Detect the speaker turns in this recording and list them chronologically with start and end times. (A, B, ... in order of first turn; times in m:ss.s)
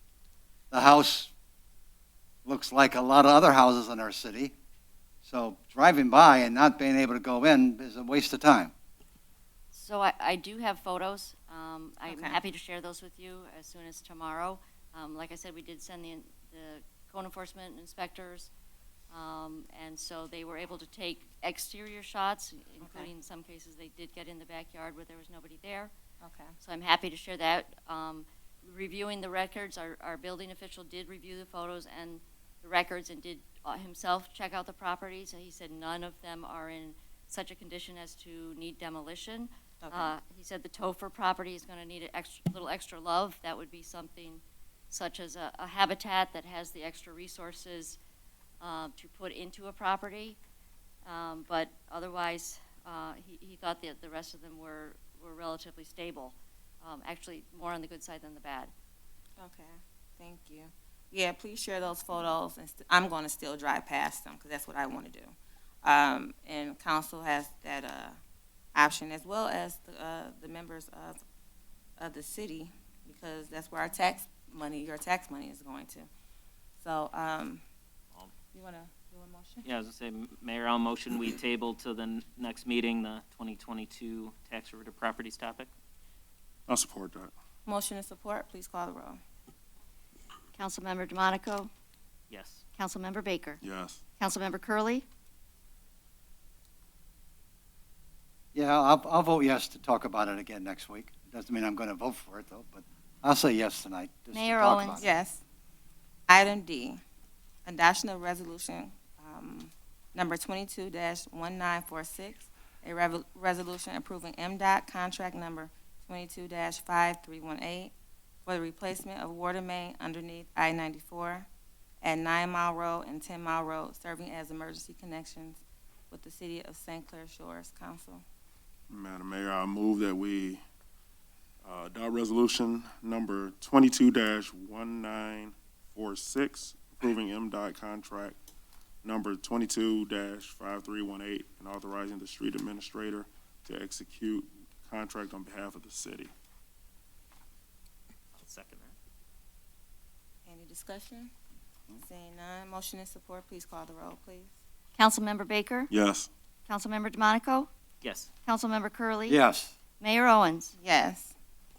0:00.7-0:01.3 A
0:02.4-0:04.5 A
0:05.2-0:08.7 A
0:09.7-0:18.5 B
0:12.1-0:12.4 C
0:19.1-0:25.9 B
0:22.8-0:23.1 C
0:26.2-0:26.5 C
0:26.6-0:48.0 B
0:39.8-0:40.1 C
0:48.6-0:50.4 B
0:51.0-0:58.7 B
0:59.4-1:08.2 C
1:08.7-1:11.2 C
1:12.0-1:16.1 C
1:16.8-1:17.6 C
1:18.5-1:19.7 C
1:19.6-1:25.7 D
1:26.7-1:27.3 E
1:27.6-1:29.2 C
1:30.5-1:31.7 B
1:32.3-1:32.6 D
1:32.8-1:33.6 B
1:33.6-1:34.0 E
1:34.2-1:35.0 B
1:38.5-1:45.1 A
1:44.3-1:45.0 B
1:45.0-1:45.4 C
1:46.3-1:47.0 C
1:47.6-1:57.9 C
1:58.4-2:01.5 C
2:02.0-2:08.2 C
2:08.9-2:10.6 E
2:11.6-2:18.4 E
2:19.0-2:26.3 E
2:28.3-2:29.0 D
2:30.4-2:31.3 C
2:32.0-2:34.5 C
2:35.0-2:35.9 B
2:35.9-2:36.3 E
2:36.7-2:37.7 B
2:38.0-2:38.3 D
2:38.4-2:39.4 B
2:39.3-2:39.8 A
2:40.0-2:40.7 B
2:40.8-2:41.3 C